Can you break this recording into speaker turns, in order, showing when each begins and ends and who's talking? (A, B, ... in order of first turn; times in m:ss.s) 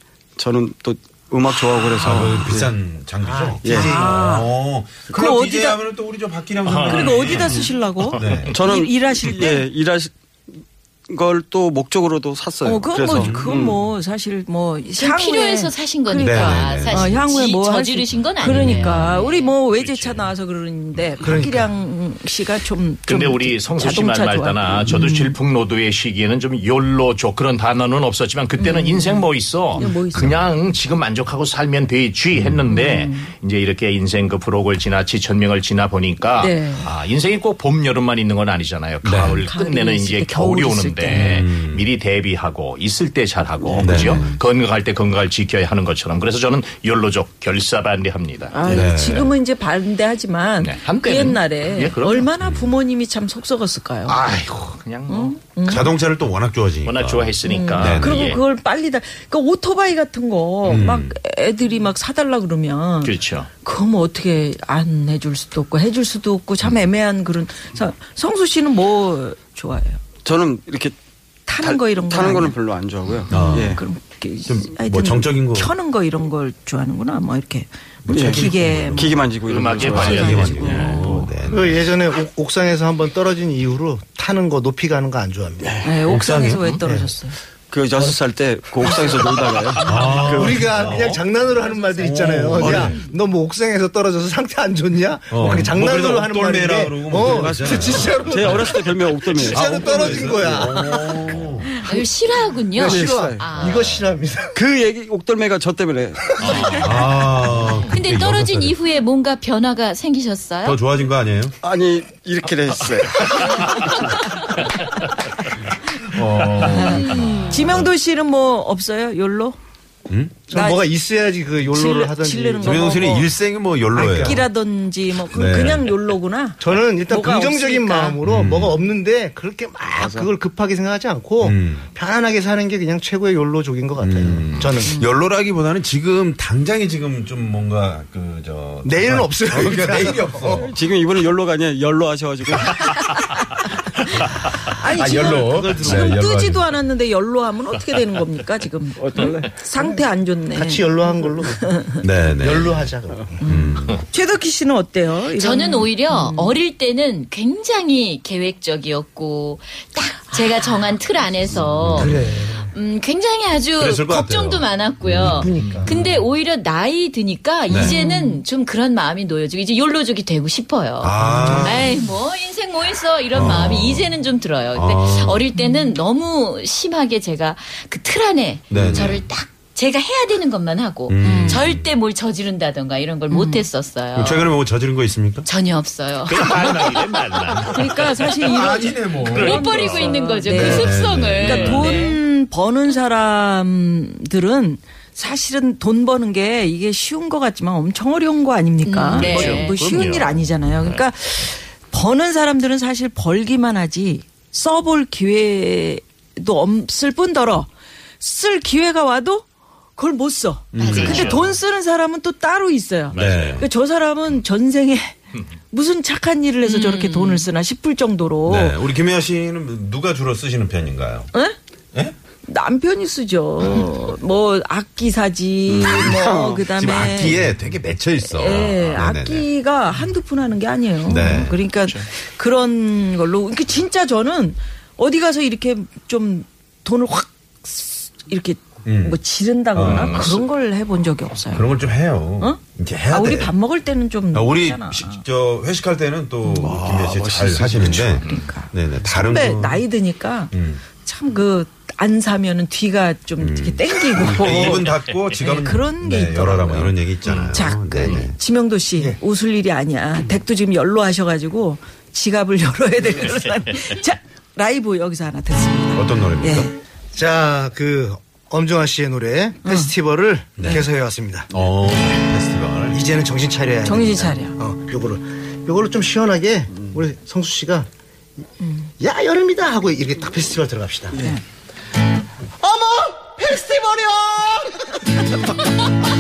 0:00.4-0:02.7 A
0:02.0-0:02.4 B
0:02.0-0:08.6 C
0:03.2-0:04.1 D
0:03.6-0:03.9 A
0:03.7-0:04.5 B
0:05.1-0:05.8 B
0:06.6-0:07.5 E
0:06.9-0:09.7 B
0:08.5-0:13.8 A
0:12.6-0:25.4 B
0:13.1-0:13.5 C
0:15.0-0:19.5 F
0:16.2-0:17.2 C
0:18.4-0:19.2 C
0:19.6-0:20.3 E
0:21.2-0:21.7 D
0:23.1-0:48.6 E
0:28.6-0:30.4 B
0:29.8-0:30.5 C
0:32.3-0:32.6 C
0:32.7-0:33.3 B
0:36.4-0:36.9 B
0:39.0-0:39.4 C
0:39.2-0:41.4 B
0:41.1-0:41.9 C
0:43.8-0:44.3 B
0:43.8-0:44.4 C
0:43.8-0:44.2 A
0:48.5-0:54.2 B
0:48.6-0:49.3 C
0:50.6-0:52.3 E
0:52.4-0:52.8 C
0:54.1-0:55.4 E
0:55.1-0:55.9 B
0:55.6-0:58.4 C
0:56.8-0:58.4 E
0:57.4-1:10.0 B
1:00.6-1:01.2 C
1:03.0-1:03.5 E
1:10.2-1:11.0 A
1:11.5-1:12.6 B
1:11.6-1:13.8 A
1:13.3-1:13.7 C
1:13.3-1:19.2 B
1:14.5-1:15.8 C
1:18.0-1:19.2 C
1:18.1-1:21.1 A
1:19.5-1:21.1 E
1:19.8-1:21.3 B
1:19.9-1:21.9 C
1:21.5-1:25.8 D
1:25.6-1:26.0 A
1:25.8-1:27.4 B
1:26.1-1:26.8 C
1:26.8-1:27.1 D
1:27.7-1:31.0 A
1:28.8-1:29.1 B
1:29.8-1:31.2 C
1:29.9-1:41.1 D
1:31.9-1:33.0 C
1:35.3-1:38.7 C
1:37.2-1:40.8 A
1:39.5-1:41.8 C
1:41.8-1:44.0 F
1:42.7-1:44.6 D
1:42.8-1:43.6 A
1:44.5-1:46.8 A
1:46.4-1:46.8 D
1:46.4-1:47.0 E
1:46.8-1:48.8 C
1:47.9-1:50.8 F
1:50.6-1:51.6 C
1:51.6-1:54.0 A
1:56.0-1:57.9 C
1:56.6-1:59.6 B
2:00.1-2:00.4 C
2:00.5-2:03.2 D
2:00.5-2:00.8 B
2:01.7-2:03.3 B
2:02.6-2:04.5 C
2:03.9-2:08.2 B
2:04.0-2:04.4 D
2:05.3-2:05.9 C
2:06.6-2:15.0 D
2:08.3-2:08.8 C
2:09.9-2:10.3 A
2:11.4-2:11.9 C
2:14.0-2:20.7 C
2:14.9-2:15.1 B
2:18.8-2:20.7 D
2:20.6-2:22.9 A
2:24.7-2:31.9 B
2:24.8-2:26.7 C
2:25.0-2:26.2 D
2:29.0-2:29.6 A
2:29.8-2:31.8 D
2:32.0-2:32.9 C
2:32.4-2:33.4 D
2:33.4-2:36.5 B
2:33.5-2:34.0 C
2:35.3-3:04.6 F
2:41.8-2:42.1 C
2:41.9-2:42.7 D
2:43.8-2:45.5 C
2:45.3-2:46.1 D
2:47.7-2:48.0 C
2:47.7-2:48.4 B
2:51.0-2:51.9 C
2:51.2-2:51.9 D
2:53.3-2:54.1 C
2:54.7-2:55.4 C
2:55.6-2:56.0 B
2:58.7-2:59.2 C
3:01.1-3:01.9 C
3:01.2-3:01.7 B
3:03.3-3:03.6 B
3:04.1-3:05.5 C
3:05.4-3:07.0 F
3:06.3-3:08.1 E
3:07.6-3:09.6 C
3:07.7-3:27.7 B
3:09.3-3:10.1 E
3:09.4-3:12.2 F
3:10.5-3:12.0 C
3:18.8-3:19.8 F
3:19.2-3:21.0 E
3:28.2-3:35.2 B
3:30.7-3:31.4 C
3:30.8-3:31.4 F
3:30.9-3:31.4 E
3:33.1-3:33.6 E
3:33.1-3:33.7 C
3:35.7-3:38.8 B
3:36.6-3:37.5 F
3:38.5-3:41.3 C
3:42.4-3:47.4 B
3:45.7-3:46.8 A
3:46.8-3:49.5 C
3:48.3-4:01.7 B
3:51.0-3:51.6 C
3:51.8-3:52.1 E
3:58.8-3:59.2 C
3:59.7-4:00.4 C
3:59.8-4:00.4 E
4:01.5-4:03.6 C
4:02.4-4:05.2 B
4:04.3-4:09.8 C
4:06.4-4:06.8 B
4:06.6-4:08.2 A
4:08.2-4:14.8 B
4:10.5-4:10.8 C
4:13.4-4:18.4 C
4:14.2-4:14.9 A
4:15.4-4:17.0 B
4:17.2-4:18.2 E
4:17.5-4:26.7 B
4:26.0-4:26.7 C
4:27.1-4:31.5 D
4:29.6-4:29.9 B
4:30.6-4:30.8 C
4:31.5-4:33.0 C
4:32.9-4:37.9 D
4:33.8-4:34.6 B
4:39.0-4:41.2 D
4:42.6-4:45.0 D